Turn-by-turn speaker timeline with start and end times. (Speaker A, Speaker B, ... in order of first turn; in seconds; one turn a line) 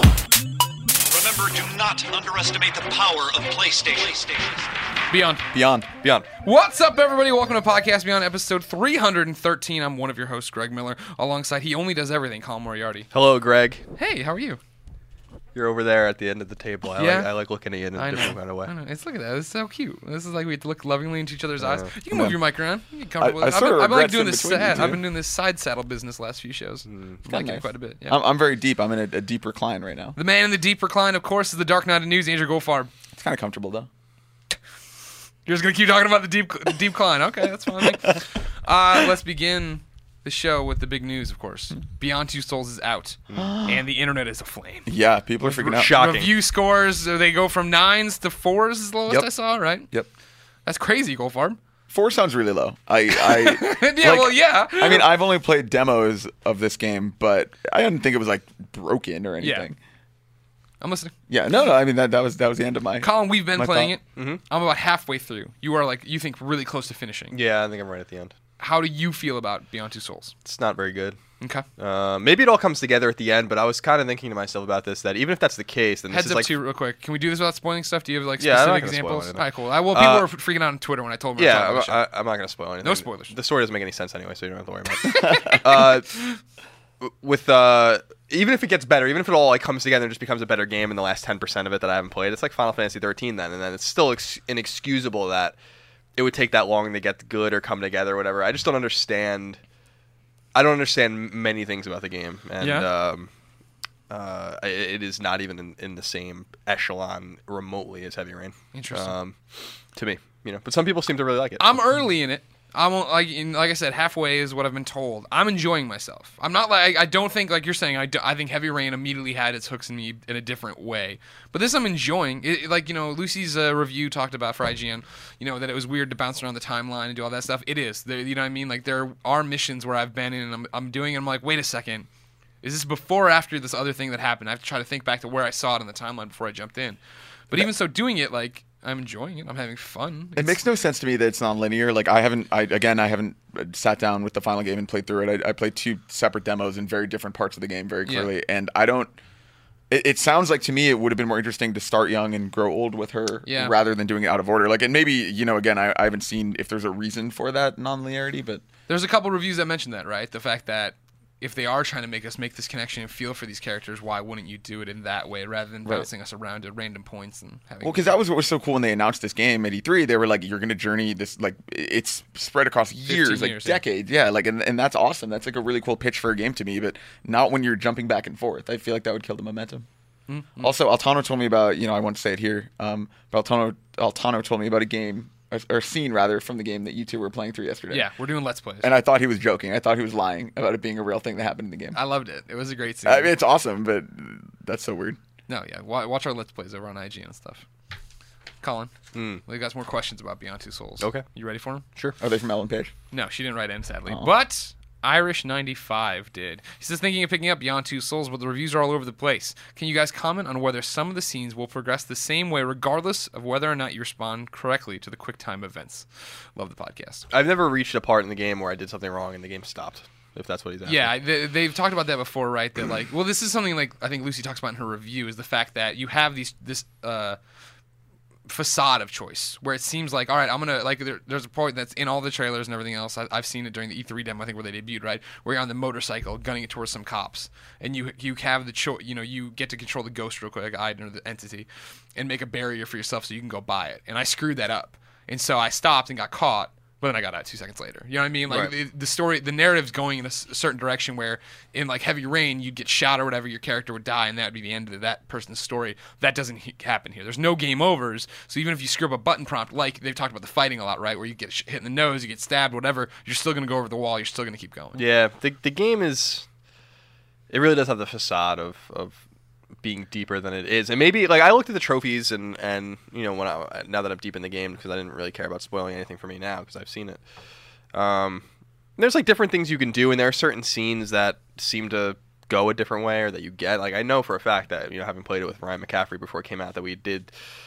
Speaker A: 1.1-4.7
Speaker B: 5.1-5.5
Speaker C: 5.5-5.9
Speaker B: 6.4-13.1
Speaker D: 13.1-13.8
Speaker B: 14.0-14.6
Speaker D: 15.6-18.7
Speaker B: 17.0-17.3
Speaker B: 18.0-28.2
Speaker D: 21.6-21.9
Speaker C: 22.1-22.4
Speaker C: 23.2-25.0
Speaker D: 26.9-27.2
Speaker C: 27.3-30.2
Speaker B: 30.2-32.9
Speaker C: 33.1-33.9
Speaker B: 35.5-44.9
Speaker C: 37.8-38.2
Speaker C: 43.4-43.9
Speaker C: 44.9-45.9
Speaker D: 45.5-46.3
Speaker B: 45.7-49.9
Speaker B: 50.7-51.6
Speaker C: 51.9-59.8
Speaker B: 53.1-55.1
Speaker B: 59.4-59.7
Speaker B: 60.8-61.1
Speaker C: 61.3-63.9
Speaker B: 63.0-67.3
Speaker D: 64.2-64.4
Speaker D: 67.3-68.3
Speaker B: 68.6-70.3
Speaker D: 70.5-71.2
Speaker B: 71.4-71.7
Speaker D: 71.8-76.5
Speaker B: 76.1-82.0
Speaker D: 78.4-80.3
Speaker D: 81.4-86.2
Speaker B: 82.8-83.3
Speaker C: 85.2-85.6
Speaker D: 87.0-95.6
Speaker D: 96.2-99.6
Speaker D: 100.5-103.3
Speaker B: 102.6-102.9
Speaker D: 104.1-111.8
Speaker B: 108.7-109.1
Speaker B: 111.6-132.1
Speaker B: 132.6-137.0
Speaker B: 137.5-140.6
Speaker C: 140.4-149.2
Speaker B: 148.1-148.3
Speaker C: 149.9-158.6
Speaker B: 153.5-153.8
Speaker B: 158.9-168.1
Speaker C: 167.8-179.9
Speaker B: 173.1-173.8
Speaker B: 180.3-180.7
Speaker C: 180.6-188.1
Speaker B: 187.9-188.9
Speaker C: 188.8-192.0
Speaker B: 191.9-193.3
Speaker C: 193.1-195.2
Speaker B: 195.5-197.7
Speaker B: 198.6-198.9
Speaker D: 199.1-199.4
Speaker B: 199.4-201.8
Speaker D: 201.0-201.2
Speaker C: 202.2-202.9
Speaker B: 203.1-217.3
Speaker D: 217.3-221.1
Speaker B: 220.9-227.4
Speaker B: 228.5-265.0
Speaker D: 264.9-266.5
Speaker D: 267.5-269.2
Speaker D: 269.8-277.2
Speaker D: 277.9-278.4
Speaker D: 279.0-287.3